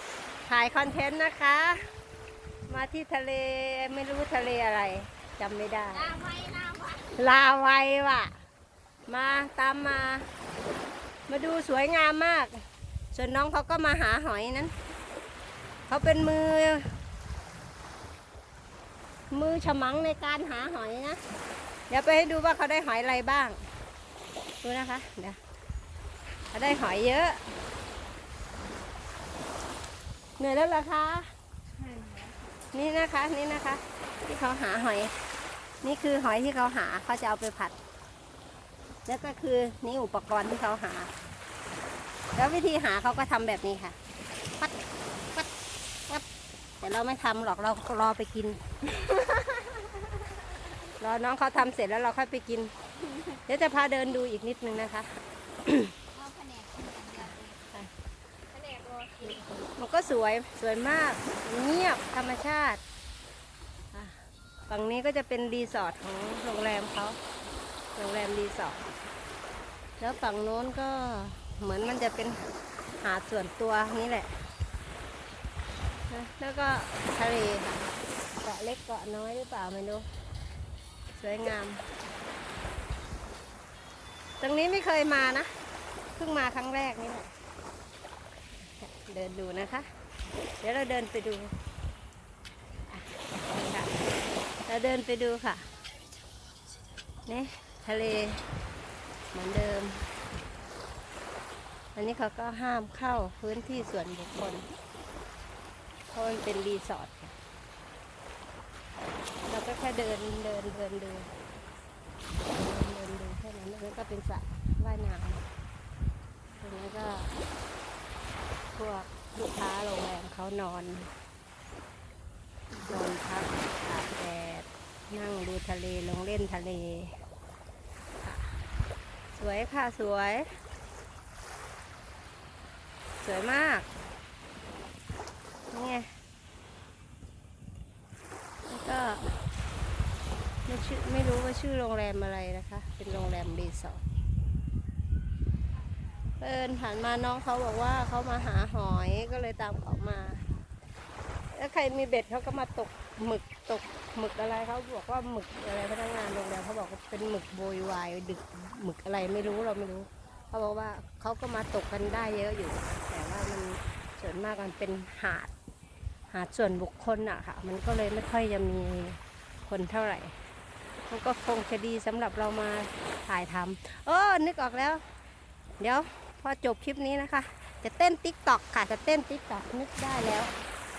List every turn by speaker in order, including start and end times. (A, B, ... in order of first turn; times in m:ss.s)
0:00.5-0:01.8 A
0:02.7-0:06.1 A
0:05.9-0:07.1 B
0:07.2-0:08.3 A
0:09.1-0:10.3 A
0:11.3-0:12.5 A
0:13.1-0:14.7 A
0:15.9-0:16.8 A
0:19.3-0:21.2 A
0:21.9-0:23.6 A
0:24.6-0:25.4 A
0:26.5-0:27.4 A
0:30.4-0:31.3 A
0:31.8-0:32.5 B
0:32.7-0:35.1 A
0:35.8-0:37.7 A
0:39.0-0:41.1 A
0:42.4-0:44.0 A
0:46.8-0:50.0 A
0:51.0-0:52.7 A
0:53.4-0:55.1 A
0:55.6-0:55.9 A
0:56.1-0:57.6 B
0:57.2-0:57.9 A
0:58.5-0:59.6 B
0:59.2-1:02.8 A
1:03.9-1:07.2 A
1:08.0-1:08.9 A
1:10.0-1:12.4 A
1:13.0-1:14.3 A
1:16.1-1:20.0 A
1:21.2-1:21.8 A
1:24.4-1:25.5 A
1:26.2-1:27.3 A
1:28.6-1:29.9 A
1:30.6-1:31.5 A
1:32.9-1:33.9 A
1:34.7-1:35.6 A
1:37.2-1:38.4 A
1:39.3-1:40.0 A
1:42.0-1:44.7 A
1:46.1-1:47.3 A
1:49.4-1:51.3 A
1:52.4-1:55.4 A
1:56.6-1:57.3 A
1:58.8-2:01.1 A
2:02.8-2:07.1 A
2:08.2-2:08.5 A
2:09.3-2:10.5 A
2:13.2-2:13.8 A
2:15.7-2:16.1 A
2:18.7-2:19.3 A
2:20.7-2:24.0 A
2:26.4-2:30.4 A
2:31.5-2:45.5 A
2:46.3-2:50.3 A
2:51.1-2:55.0 A
2:55.8-3:00.5 A